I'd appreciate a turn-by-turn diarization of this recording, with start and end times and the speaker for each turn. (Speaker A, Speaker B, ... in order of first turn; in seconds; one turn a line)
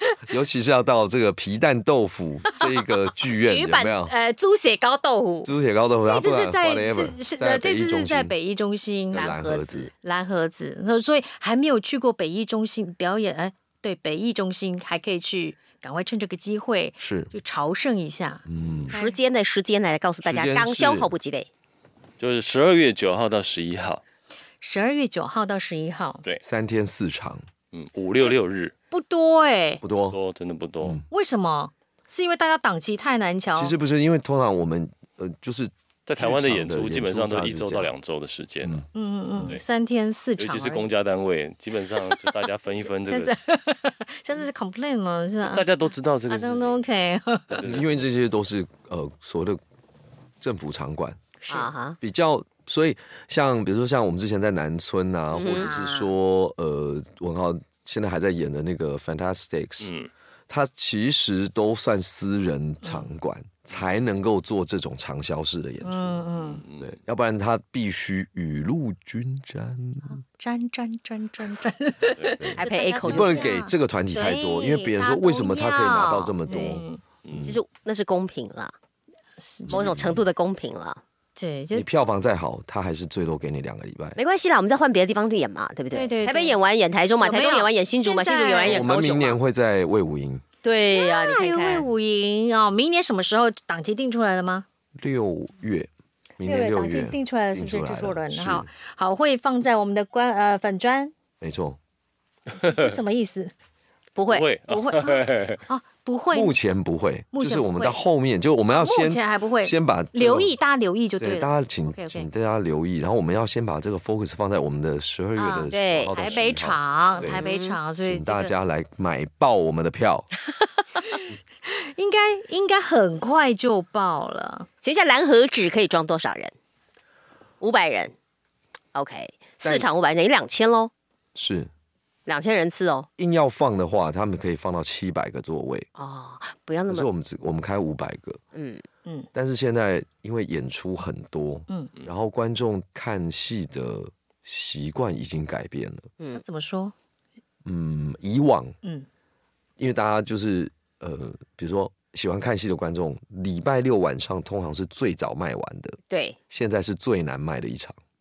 Speaker A: 0.3-4.1
Speaker B: 3.2-5.5
Speaker A: 5.4-8.3
Speaker B: 6.0-9.3
Speaker A: 9.1-9.9
Speaker C: 9.1-9.8
Speaker B: 10.0-19.2
Speaker A: 17.0-17.3
Speaker A: 18.4-18.9
Speaker D: 18.6-18.9
Speaker C: 18.9-21.5
Speaker A: 20.2-21.1
Speaker D: 22.2-24.0
Speaker B: 24.6-26.2
Speaker A: 26.4-27.4
Speaker D: 27.7-28.7
Speaker B: 28.9-29.8
Speaker A: 29.8-30.2
Speaker D: 30.1-31.0
Speaker B: 31.1-33.7
Speaker A: 33.5-37.9
Speaker D: 36.1-38.9
Speaker B: 38.9-40.9
Speaker D: 40.4-43.3
Speaker B: 42.8-45.7
Speaker D: 45.4-46.8
Speaker B: 46.3-47.6
Speaker D: 47.5-47.9
Speaker A: 47.6-49.6
Speaker A: 50.4-51.2
Speaker B: 51.4-51.7
Speaker C: 51.5-52.0
Speaker A: 52.0-59.9
Speaker C: 55.3-55.8
Speaker B: 55.4-56.1
Speaker D: 59.8-60.1
Speaker A: 60.5-70.2
Speaker B: 62.8-63.1
Speaker B: 65.8-66.6
Speaker D: 66.6-67.0
Speaker B: 70.4-77.0
Speaker D: 72.2-72.4
Speaker A: 72.4-77.6
Speaker C: 72.6-73.5
Speaker C: 76.5-76.8
Speaker D: 77.2-77.6
Speaker C: 77.4-78.7
Speaker B: 79.4-79.9
Speaker A: 79.7-80.2
Speaker C: 79.7-81.0
Speaker B: 81.3-81.9
Speaker A: 81.7-84.2
Speaker C: 84.2-89.3
Speaker B: 85.9-86.6
Speaker B: 87.2-89.1
Speaker A: 88.6-90.4
Speaker C: 90.6-91.9
Speaker B: 90.9-94.6
Speaker A: 95.0-98.7
Speaker B: 96.4-101.1
Speaker A: 101.4-101.8
Speaker B: 102.5-103.5
Speaker C: 104.2-104.5
Speaker D: 104.3-105.6
Speaker B: 104.7-106.5
Speaker A: 106.3-110.5
Speaker B: 107.3-108.0
Speaker B: 108.7-112.3
Speaker A: 111.2-117.4
Speaker B: 115.4-118.5
Speaker C: 115.7-116.2
Speaker C: 117.2-117.8
Speaker A: 118.0-120.3
Speaker B: 121.0-124.7
Speaker C: 124.8-126.5
Speaker C: 127.6-128.1
Speaker C: 128.9-130.9
Speaker A: 129.6-129.9
Speaker A: 131.3-131.7
Speaker C: 132.2-133.1
Speaker A: 133.2-135.9
Speaker C: 135.9-137.1
Speaker A: 136.9-138.4
Speaker C: 138.5-138.8
Speaker A: 139.3-146.1
Speaker B: 146.3-146.9
Speaker A: 147.6-148.7
Speaker A: 149.8-156.0
Speaker C: 156.1-156.4
Speaker A: 156.5-157.9